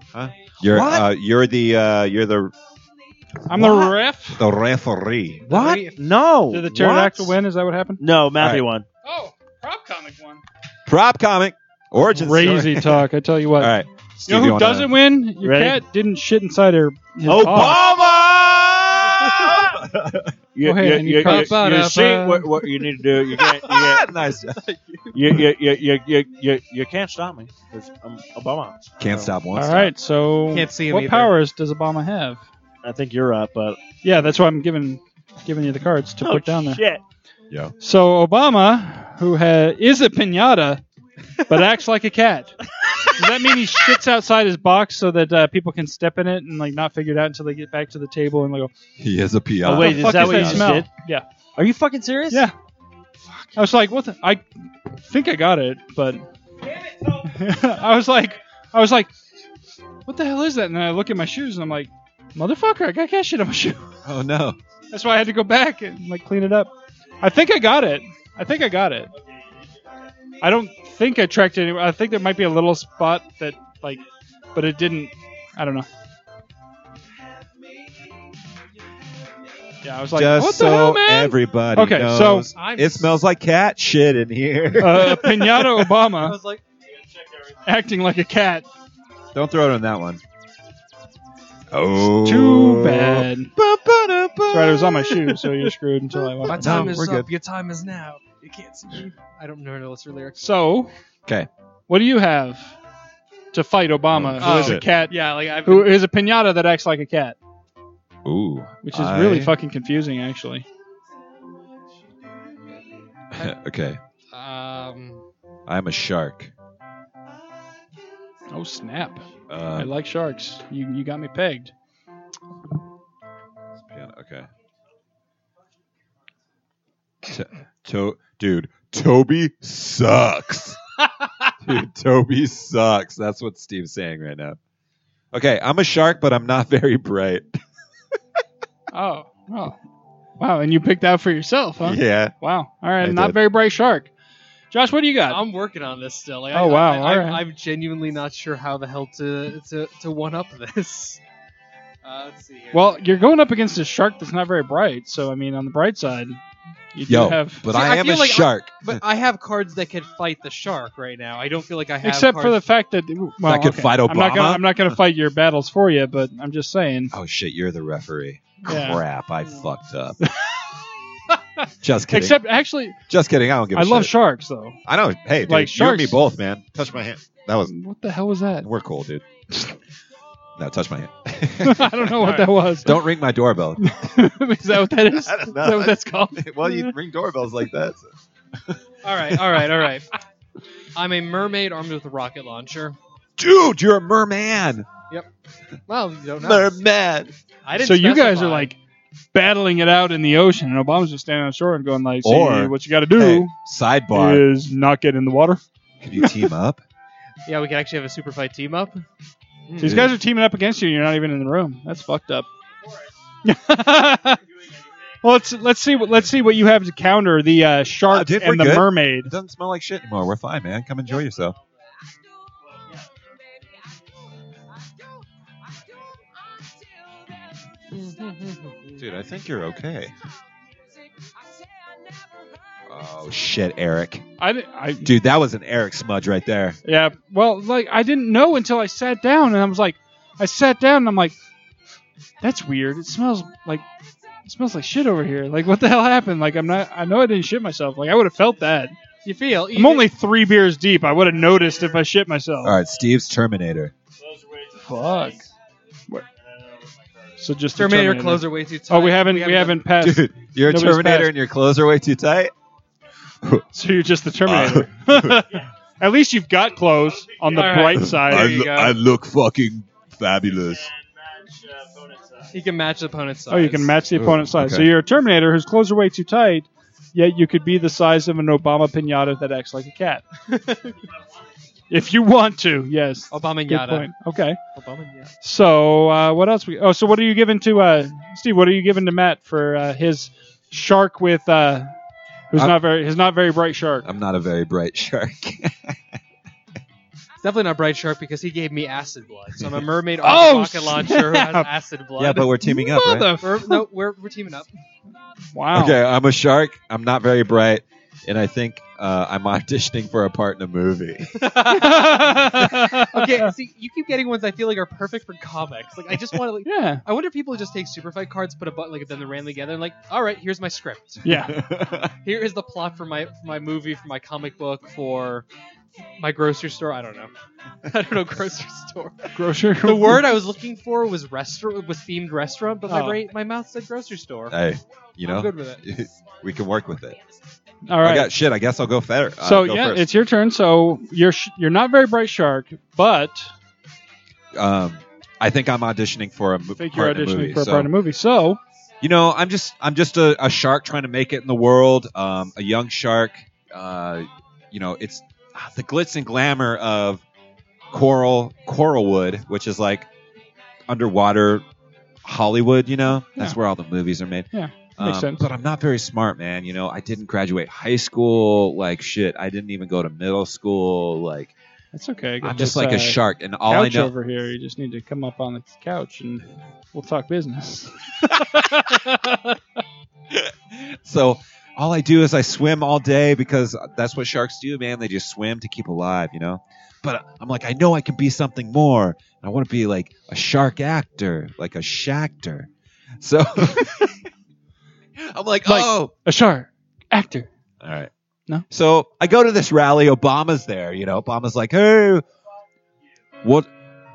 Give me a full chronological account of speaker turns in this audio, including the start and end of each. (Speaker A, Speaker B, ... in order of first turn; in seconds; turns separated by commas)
Speaker A: 0.1-2.5, Speaker B: 0.6-1.1, Speaker C: 3.5-4.4, Speaker A: 3.5-5.5, Speaker D: 5.5-6.0, Speaker B: 5.5-7.4, Speaker C: 6.5-8.0, Speaker B: 8.0-8.8, Speaker A: 8.4-8.6, Speaker C: 9.0-10.4, Speaker A: 10.9-13.1, Speaker C: 12.1-13.7, Speaker A: 13.6-14.9, Speaker C: 14.3-17.8, Speaker B: 15.4-15.8, Speaker B: 17.2-19.8, Speaker A: 17.3-20.3, Speaker B: 20.5-24.2, Speaker C: 20.6-21.6, Speaker D: 21.2-22.6, Speaker A: 23.4-24.6, Speaker D: 24.6-25.1, Speaker B: 25.1-29.3, Speaker A: 29.0-29.9, Speaker C: 29.5-32.4, Speaker D: 30.5-31.3, Speaker B: 32.8-33.8, Speaker C: 34.0-36.8, Speaker B: 36.2-37.0, Speaker C: 37.8-40.8, Speaker C: 41.5-42.5, Speaker C: 43.1-48.7, Speaker A: 49.0-50.8, Speaker B: 49.6-50.9, Speaker C: 49.7-51.2, Speaker B: 51.5-52.5, Speaker C: 53.5-54.4, Speaker C: 55.0-56.2, Speaker C: 57.2-59.1, Speaker C: 60.0-63.9, Speaker A: 64.0-64.6, Speaker C: 64.9-69.1, Speaker C: 70.4-74.0, Speaker C: 74.5-75.9, Speaker C: 79.8-82.5, Speaker A: 80.1-85.5, Speaker D: 82.5-83.2, Speaker C: 84.8-86.3, Speaker D: 86.1-86.6, Speaker B: 87.0-87.5, Speaker C: 87.7-88.7, Speaker A: 89.3-90.2, Speaker A: 91.7-95.4, Speaker C: 92.2-93.5, Speaker C: 94.5-97.0, Speaker D: 96.4-100.5, Speaker A: 96.5-97.3, Speaker C: 100.4-100.9, Speaker C: 101.9-102.7, Speaker C: 103.5-107.3, Speaker A: 104.1-104.8, Speaker D: 104.4-106.0, Speaker A: 108.2-109.5, Speaker C: 108.8-110.7, Speaker A: 113.3-114.0, Speaker D: 114.3-115.2, Speaker A: 115.7-116.5, Speaker C: 118.5-121.7, Speaker A: 119.5-119.9, Speaker A: 123.9-124.5, Speaker A: 127.3-130.8, Speaker A: 131.6-134.6, Speaker A: 135.3-137.5, Speaker C: 138.9-139.8, Speaker C: 140.4-144.1, Speaker A: 141.8-142.3, Speaker A: 143.0-143.4, Speaker C: 144.7-145.4, Speaker D: 145.3-151.2, Speaker C: 146.5-147.4, Speaker D: 152.0-153.0, Speaker C: 152.7-156.4, Speaker C: 156.9-157.6, Speaker A: 157.1-159.0, Speaker D: 157.7-162.6, Speaker C: 162.0-167.1, Speaker A: 163.4-165.0, Speaker A: 167.1-170.2, Speaker C: 168.6-169.0, Speaker A: 171.8-172.4, Speaker C: 172.1-173.0, Speaker A: 173.1-174.1, Speaker C: 173.7-174.8, Speaker A: 174.8-177.7, Speaker C: 175.5-176.2, Speaker C: 177.7-178.7, Speaker A: 178.6-179.2, Speaker A: 180.6-183.9, Speaker C: 181.6-183.0, Speaker D: 182.2-182.5, Speaker C: 183.8-186.9, Speaker A: 185.1-188.1, Speaker D: 189.0-190.2, Speaker D: 190.9-193.0, Speaker A: 193.4-194.9, Speaker D: 195.9-196.8, Speaker A: 196.4-197.3, Speaker D: 197.6-198.7, Speaker C: 197.8-198.8, Speaker C: 199.3-203.5, Speaker A: 202.2-204.5, Speaker C: 204.1-205.6, Speaker A: 206.0-206.8, Speaker D: 207.4-209.0, Speaker D: 209.7-210.0, Speaker C: 209.8-212.5, Speaker A: 209.8-210.1, Speaker C: 213.4-214.4, Speaker B: 214.4-215.2, Speaker C: 215.2-219.3, Speaker A: 218.1-221.5, Speaker B: 222.7-223.2, Speaker D: 227.9-229.0, Speaker A: 229.0-230.1, Speaker A: 232.9-234.2, Speaker C: 234.4-235.1, Speaker A: 235.0-236.8, Speaker C: 236.8-241.3, Speaker C: 242.4-243.8, Speaker C: 244.4-248.9, Speaker D: 249.2-250.1, Speaker C: 249.7-252.8, Speaker B: 251.2-252.0, Speaker A: 252.6-253.9, Speaker B: 254.2-255.5, Speaker C: 254.8-255.4, Speaker B: 256.3-257.4, Speaker C: 257.4-261.3, Speaker D: 257.7-259.9, Speaker A: 260.0-262.5, Speaker C: 263.7-268.6, Speaker A: 264.4-265.4, Speaker B: 266.8-267.9, Speaker D: 267.5-269.0, Speaker A: 268.0-270.8, Speaker B: 270.4-272.6, Speaker D: 272.5-273.9, Speaker C: 273.5-280.2, Speaker A: 274.1-274.9, Speaker D: 280.5-281.0, Speaker C: 281.9-284.6, Speaker D: 283.3-284.1, Speaker D: 284.7-285.3, Speaker C: 285.4-291.9, Speaker C: 292.5-294.1, Speaker A: 292.5-292.8, Speaker A: 294.0-296.0, Speaker D: 297.4-302.5, Speaker C: 300.2-301.7, Speaker A: 302.2-303.4, Speaker C: 302.6-303.8, Speaker D: 303.4-304.7, Speaker C: 305.5-306.0, Speaker A: 305.7-311.4, Speaker D: 311.4-321.2, Speaker C: 311.6-313.5, Speaker C: 316.6-317.0, Speaker C: 321.2-321.6, Speaker A: 321.5-322.1, Speaker D: 322.2-325.5, Speaker D: 326.2-327.3, Speaker D: 327.9-334.6, Speaker C: 329.3-330.3, Speaker C: 332.9-333.2, Speaker A: 334.5-337.2, Speaker D: 335.2-335.8, Speaker C: 337.9-338.3, Speaker A: 338.0-340.1, Speaker C: 339.4-343.5, Speaker A: 344.6-347.9, Speaker C: 346.8-348.6, Speaker A: 349.0-357.2, Speaker A: 357.9-360.1, Speaker A: 360.9-361.6, Speaker A: 362.2-371.5, Speaker C: 364.5-365.4, Speaker C: 371.9-379.6, Speaker A: 372.4-374.1, Speaker A: 380.3-392.7, Speaker A: 393.2-394.2, Speaker A: 395.2-396.1, Speaker C: 395.6-397.5, Speaker A: 397.8-398.1, Speaker A: 398.7-402.2, Speaker A: 403.4-403.7